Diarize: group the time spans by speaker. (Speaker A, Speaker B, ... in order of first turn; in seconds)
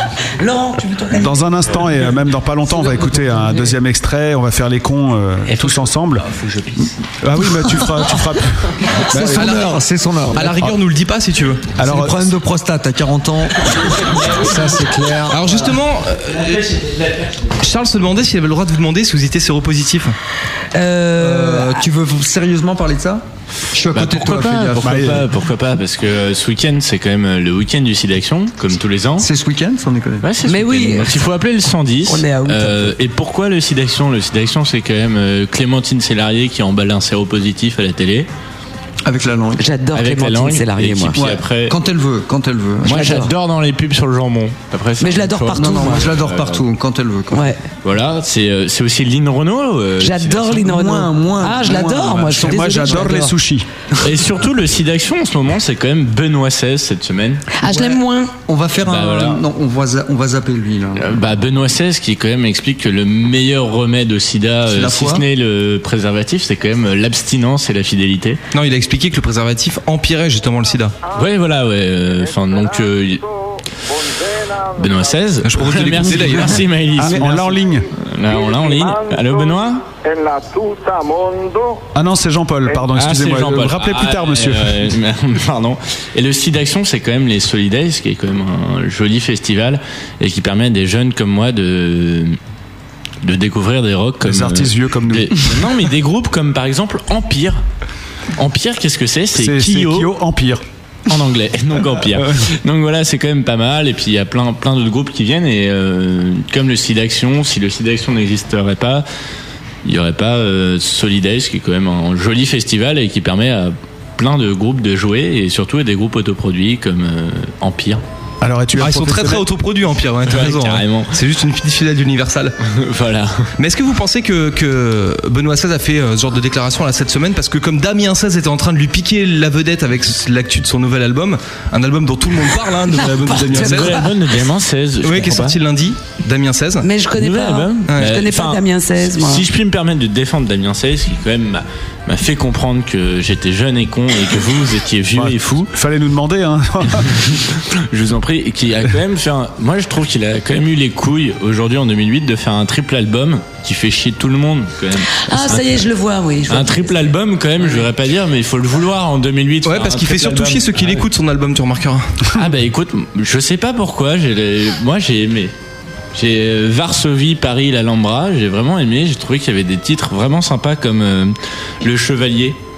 Speaker A: 0.4-1.6, 20.7-21.8, 30.4-31.3, 32.0-33.0, 39.6-41.2, 42.8-43.3, 45.0-46.1, 47.3-47.6, 50.0-53.4, 57.6-58.3, 133.1-134.1, 136.8-139.5, 155.2-157.1
Speaker B: 1.1-6.2, 7.2-9.5, 11.8-12.3, 24.8-25.3, 52.4-53.7, 77.0-77.9, 81.9-84.9, 94.2-95.5, 99.3-100.6, 118.4-119.4, 145.1-147.4
Speaker C: 5.5-7.0, 14.0-15.6, 16.2-17.6
Speaker D: 9.1-10.6, 11.8-15.7, 21.2-23.2, 23.7-25.1, 29.2-30.3, 39.0-39.6, 41.1-43.2, 45.5-47.5, 50.7-53.0, 57.6-61.2, 64.7-65.2
Speaker E: 10.3-11.7, 15.3-16.6, 17.6-20.1, 68.5-71.0, 75.4-76.7, 118.8-122.6, 123.6-134.1, 135.0-136.9, 137.9-138.2, 159.6-162.1
Speaker F: 23.9-29.3, 30.2-38.3, 39.9-41.8, 42.8-46.6, 47.8-50.7, 54.0-57.4, 58.8-59.4, 61.0-68.4, 71.1-73.2, 74.7-79.8, 82.9-92.4, 93.2-97.6, 98.3-100.1, 101.1-109.0, 109.8-118.0, 120.2-121.1, 122.7-123.5, 133.4-135.6, 137.1-145.7, 147.7-155.8, 156.5-160.9, 162.3-165.5, 166.1-172.6